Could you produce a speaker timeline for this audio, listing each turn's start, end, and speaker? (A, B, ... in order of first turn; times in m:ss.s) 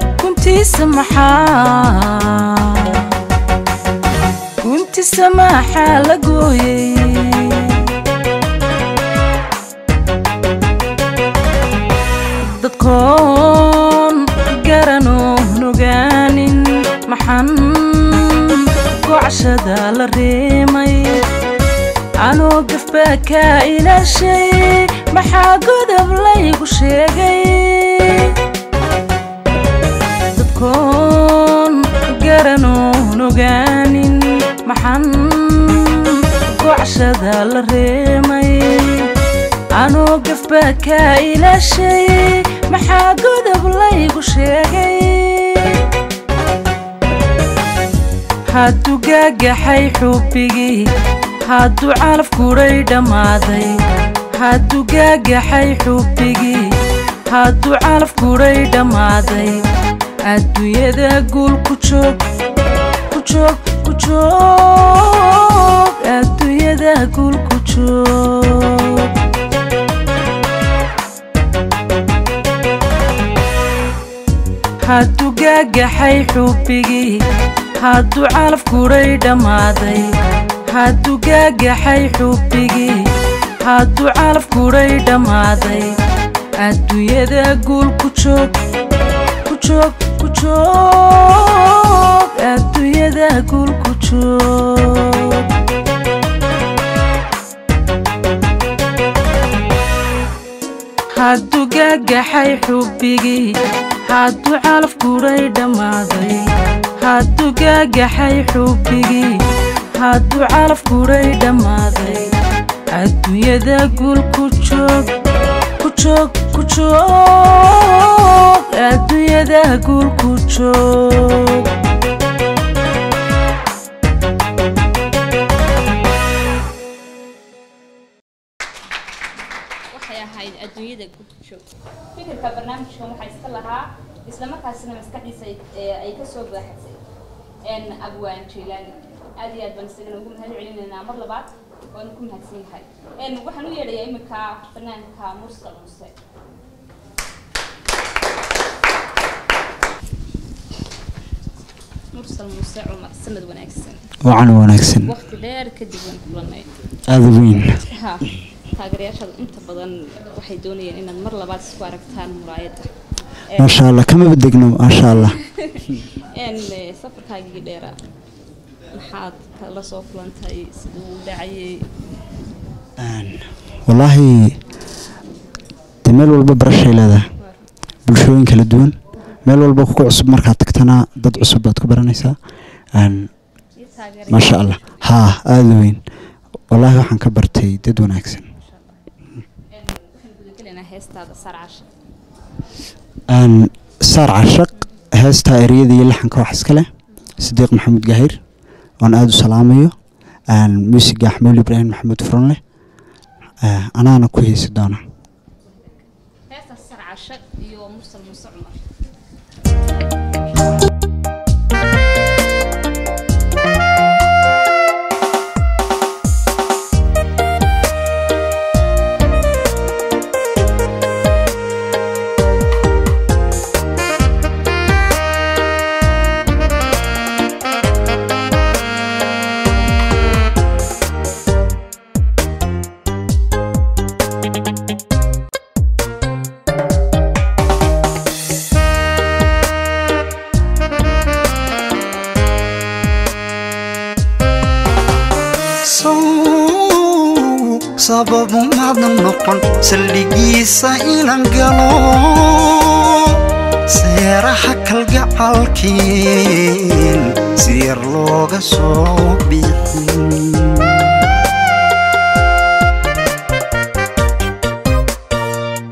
0:00.2-0:03.1 A
0:04.6-0:07.8 A
0:12.5-0:16.6 A
0:17.1-0:21.2 A
0:22.2-0:28.3 A
0:30.3-0:39.1 A
0:39.8-0:45.8 A
0:48.5-0:50.7 A
0:51.5-0:53.7 A
0:54.4-0:56.6 A
0:57.3-0:59.6 A
1:00.3-1:02.2 A
1:03.1-1:09.1 A
1:14.9-1:17.1 A
1:17.8-1:20.1 A
1:20.7-1:22.9 A
1:23.7-1:25.9 A
1:26.6-1:28.5 A
1:29.5-1:35.4 A
1:41.2-1:43.4 A
1:44.1-1:46.4 A
1:47.0-1:49.4 A
1:50.0-1:52.3 A
1:53.0-1:55.1 A
1:55.8-2:01.6 A
2:09.9-2:17.0 B
2:17.7-2:26.2 B
2:32.1-2:34.1 B
2:34.2-2:35.1 C
2:35.0-2:36.7 B
2:37.1-2:37.8 C
2:37.9-2:42.9 B
2:43.5-2:43.8 B
2:43.6-2:45.4 C
2:45.7-2:48.0 B
2:48.9-2:51.9 B
2:53.0-2:54.6 C
2:56.0-2:57.2 C
2:58.0-3:02.4 C
3:02.9-3:03.3 C
3:03.8-3:05.1 B
3:04.3-3:06.0 C
3:06.7-3:08.4 C
3:08.6-3:09.0 B
3:09.7-3:11.9 B
3:13.3-3:16.9 C
3:17.4-3:18.4 C
3:19.0-3:19.9 C
3:20.5-3:22.6 C
3:23.6-3:25.0 C
3:25.6-3:26.0 B
3:26.5-3:28.9 B
4:05.8-4:21.0 D